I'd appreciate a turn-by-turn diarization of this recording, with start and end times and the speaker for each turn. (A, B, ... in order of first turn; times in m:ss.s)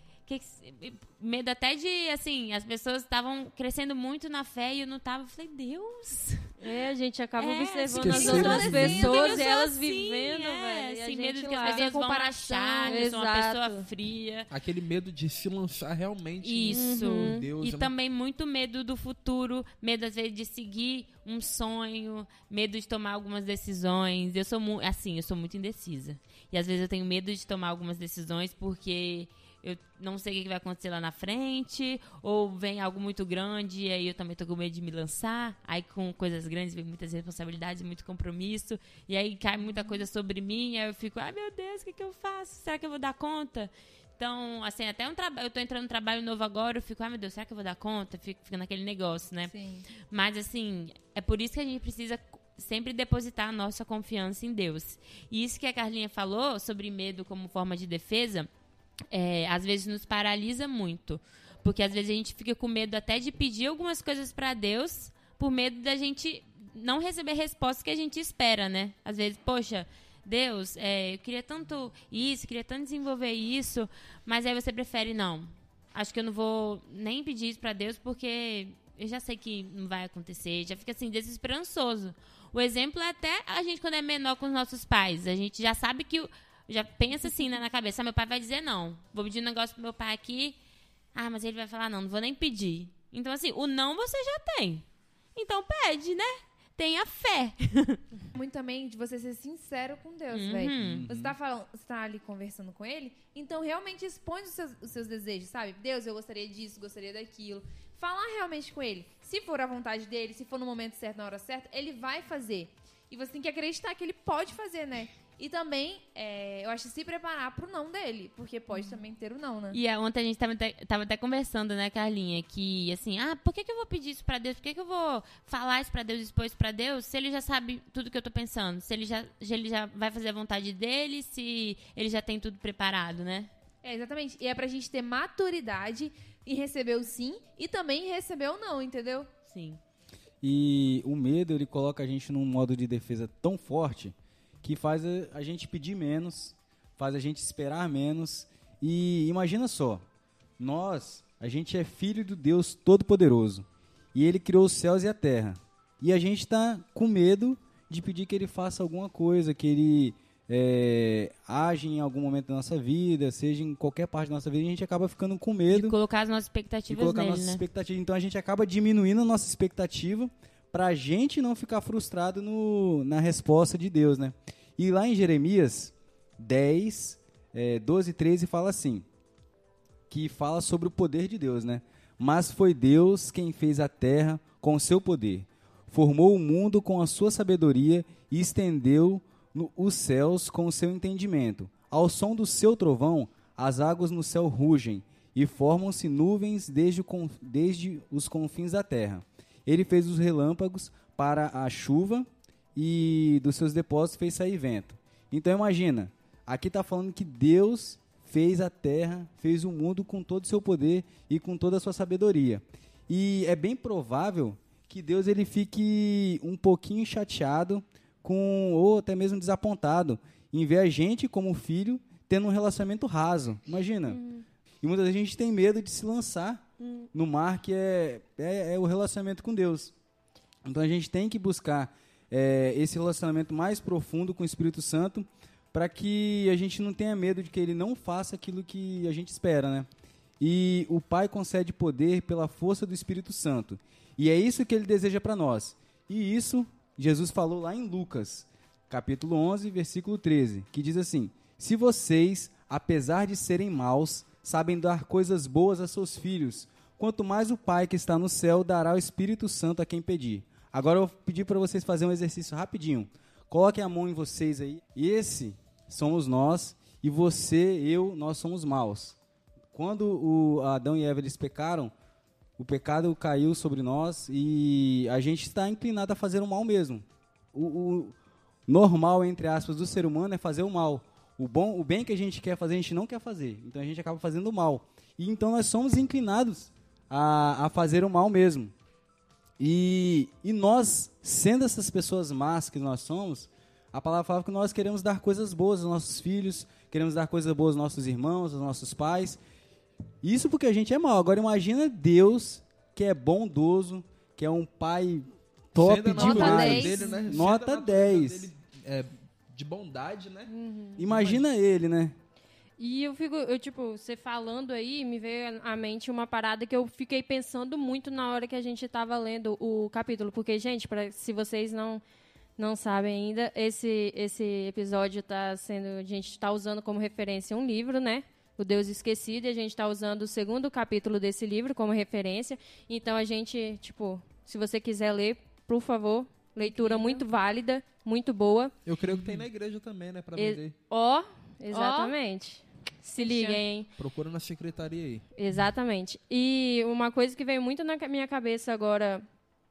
0:00.2-0:06.5 A
0:06.6-0:11.9 B
0:07.4-0:14.5 A
0:08.0-0:08.8 C
0:08.1-0:09.4 D
0:11.6-0:13.0 D
0:12.8-0:13.9 B
0:14.5-0:17.9 E
0:16.4-0:58.5 A
0:16.7-0:17.5 B
0:39.6-0:40.0 D
0:49.5-0:49.9 D
0:59.1-1:30.6 A
1:31.1-1:34.8 A
1:35.4-1:38.0 A
1:38.3-1:59.8 D
1:40.3-1:41.1 A
1:40.8-1:41.3 C
1:59.7-2:13.5 A
2:13.8-2:19.3 D
2:19.5-2:19.8 A
2:20.4-2:30.0 C
2:30.6-2:46.0 C
2:45.7-2:47.6 A
2:46.9-2:59.1 C
3:00.1-3:44.2 C
3:44.1-3:44.4 B
3:44.8-3:49.9 C
3:50.6-3:59.9 C
4:00.4-4:29.2 C
4:29.7-4:31.9 C
4:32.6-4:38.2 C
4:38.7-4:48.7 C
4:49.6-4:59.4 C
5:00.2-5:08.5 C
5:05.8-5:10.5 E
5:06.1-5:07.2 D
5:10.5-5:11.0 B
5:11.0-5:12.1 C
5:11.1-5:11.4 E
5:12.8-5:22.0 B
5:22.6-5:38.7 B
5:36.6-5:37.2 D
5:38.8-5:40.8 E
5:40.4-5:43.9 B
5:41.7-5:42.2 D
5:43.2-5:43.6 D
5:44.0-5:45.2 E
5:45.4-5:49.2 B